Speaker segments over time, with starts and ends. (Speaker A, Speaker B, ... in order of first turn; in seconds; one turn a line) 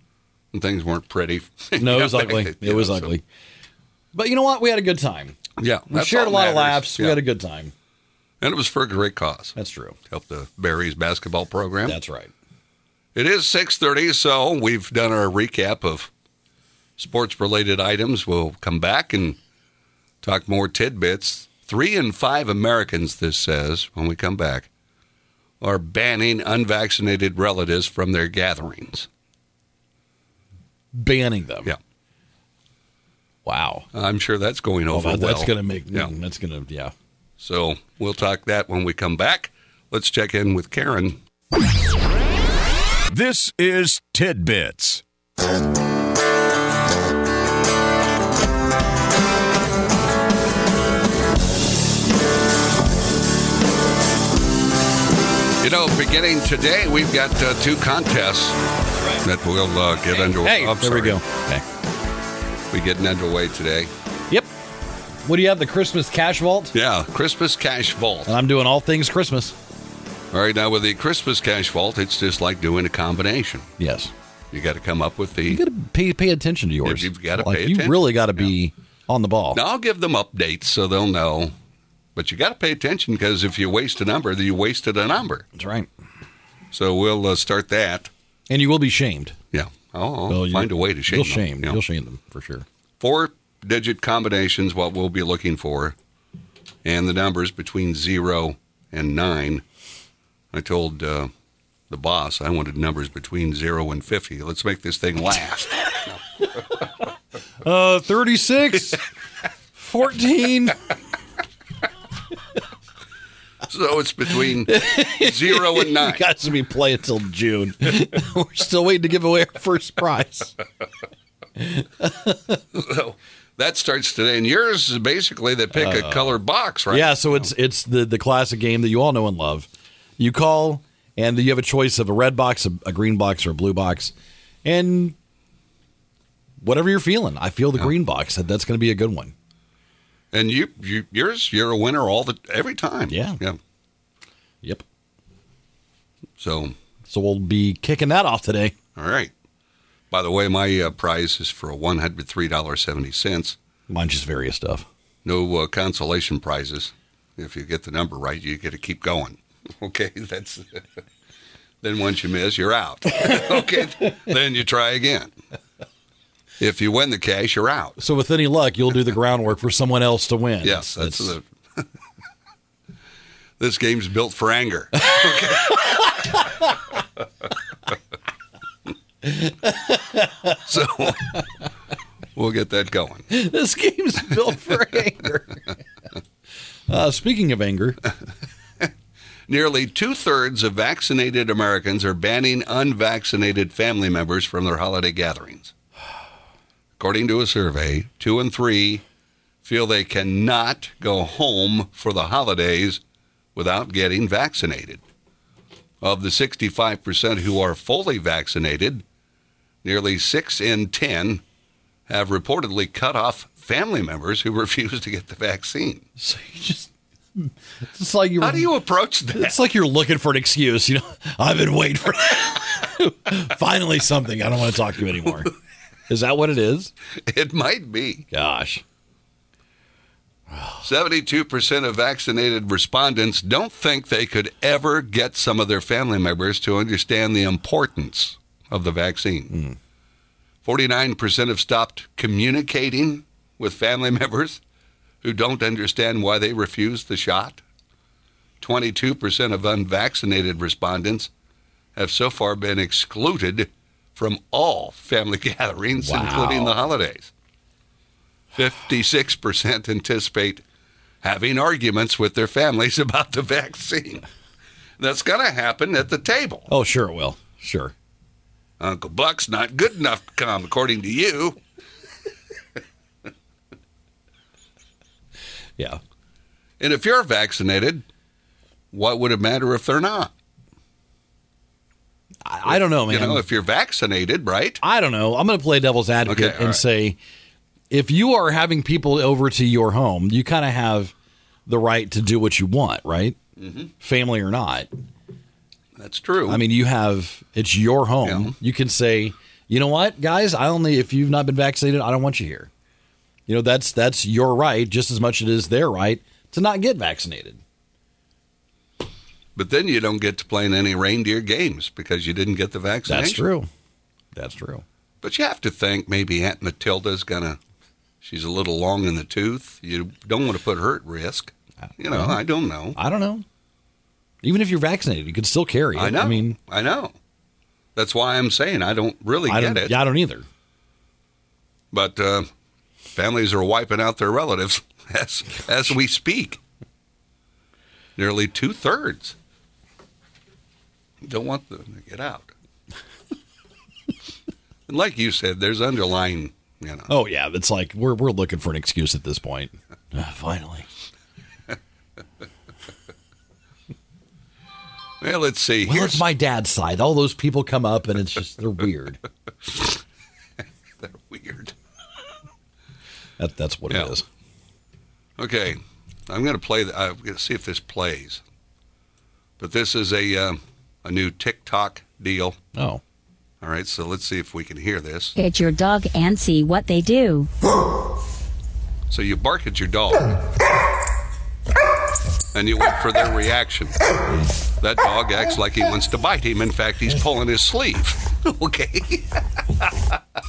Speaker A: 0.5-3.2
Speaker B: 1.8-3.2
Speaker B: 4.1-5.4
Speaker A: 5.6-7.2
Speaker B: 5.9-7.7
Speaker A: 8.4-9.6
Speaker B: 9.6-10.0
Speaker A: 10.1-12.0
Speaker B: 11.9-12.3
Speaker A: 13.2-16.1
Speaker A: 17.0-19.4
Speaker A: 20.2-24.7
Speaker A: 25.6-29.1
Speaker B: 30.9-31.7
Speaker B: 33.5-33.9
Speaker A: 33.9-36.1
Speaker B: 34.9-36.9
Speaker A: 37.4-41.2
Speaker C: 43.1-45.0
Speaker A: 55.6-58.6
Speaker A: 59.2-61.2
Speaker B: 60.3-61.6
Speaker A: 62.7-63.9
Speaker B: 65.2-66.8
Speaker A: 66.7-68.3
Speaker B: 68.3-69.6
Speaker A: 70.3-73.7
Speaker B: 73.8-74.1
Speaker A: 74.5-75.6
Speaker B: 75.5-79.6
Speaker A: 76.8-78.5
Speaker A: 79.5-81.5
Speaker A: 82.2-85.5
Speaker B: 85.6-85.9
Speaker A: 86.7-88.1
Speaker B: 88.5-89.4
Speaker A: 89.5-91.8
Speaker B: 90.3-92.7
Speaker A: 93.0-96.0
Speaker A: 96.8-99.7
Speaker A: 100.5-101.3
Speaker A: 101.9-106.2
Speaker B: 107.6-109.0
Speaker B: 109.8-110.9
Speaker A: 113.7-116.3
Speaker B: 114.7-120.5
Speaker B: 121.6-122.6
Speaker A: 122.7-127.5
Speaker B: 125.7-126.4
Speaker B: 126.9-134.1
Speaker B: 134.7-135.2
Speaker B: 136.6-139.3
Speaker A: 140.3-143.6
Speaker B: 143.1-143.4
Speaker A: 146.4-146.8
Speaker B: 147.1-148.7
Speaker A: 149.0-149.3
Speaker A: 150.1-153.6
Speaker B: 153.9-154.9
Speaker A: 155.2-161.0
Speaker A: 161.8-165.3
Speaker A: 166.6-168.0
Speaker B: 168.0-171.3
Speaker A: 170.6-171.9
Speaker A: 173.6-176.3
Speaker B: 175.0-176.6
Speaker B: 179.2-180.6
Speaker A: 180.6-181.4
Speaker A: 182.3-183.3
Speaker B: 183.3-185.8
Speaker B: 186.9-188.0
Speaker A: 189.5-195.7
Speaker A: 197.0-199.0
Speaker A: 199.6-203.0
Speaker A: 203.6-205.0
Speaker A: 206.0-209.0
Speaker A: 209.8-211.4
Speaker A: 212.1-216.1
Speaker B: 216.2-218.7
Speaker A: 218.4-219.6
Speaker B: 219.3-225.5
Speaker B: 226.1-226.9
Speaker A: 227.2-228.3
Speaker B: 228.3-228.8
Speaker B: 230.5-230.8
Speaker A: 230.8-239.6
Speaker B: 239.5-239.8
Speaker A: 240.6-244.6
Speaker A: 245.2-247.6
Speaker A: 248.6-251.3
Speaker A: 251.9-257.3
Speaker B: 256.0-256.8
Speaker A: 258.6-260.6
Speaker A: 261.2-264.2
Speaker A: 265.0-266.7
Speaker B: 266.7-267.9
Speaker A: 268.8-271.6
Speaker A: 276.8-278.1
Speaker A: 278.9-280.3
Speaker B: 282.4-283.5
Speaker A: 282.6-284.8
Speaker B: 284.8-287.2
Speaker A: 286.2-286.8
Speaker B: 287.9-291.1
Speaker B: 291.7-293.4
Speaker A: 293.6-293.9
Speaker B: 294.0-294.9
Speaker A: 296.0-296.6
Speaker B: 296.5-302.7
Speaker A: 298.2-298.6
Speaker B: 303.5-307.6
Speaker A: 309.6-313.4
Speaker B: 313.1-313.7
Speaker B: 314.4-314.8
Speaker A: 315.2-317.6
Speaker A: 318.2-323.0
Speaker B: 322.1-322.4
Speaker B: 323.0-323.4
Speaker B: 324.4-326.6
Speaker A: 325.9-327.2
Speaker A: 328.0-330.0
Speaker B: 329.5-330.5
Speaker A: 331.9-332.5
Speaker A: 333.1-336.6
Speaker A: 338.2-339.4
Speaker A: 341.2-342.5
Speaker A: 344.9-347.1
Speaker B: 347.1-350.9
Speaker A: 355.2-356.3
Speaker B: 355.9-359.2
Speaker A: 361.0-361.7
Speaker B: 363.4-364.2
Speaker A: 363.9-364.1
Speaker A: 365.4-368.4
Speaker A: 369.6-372.6
Speaker B: 372.8-373.0
Speaker A: 373.6-375.4
Speaker D: 375.4-377.5
Speaker A: 379.1-380.3
Speaker A: 382.5-384.0
Speaker A: 384.8-390.1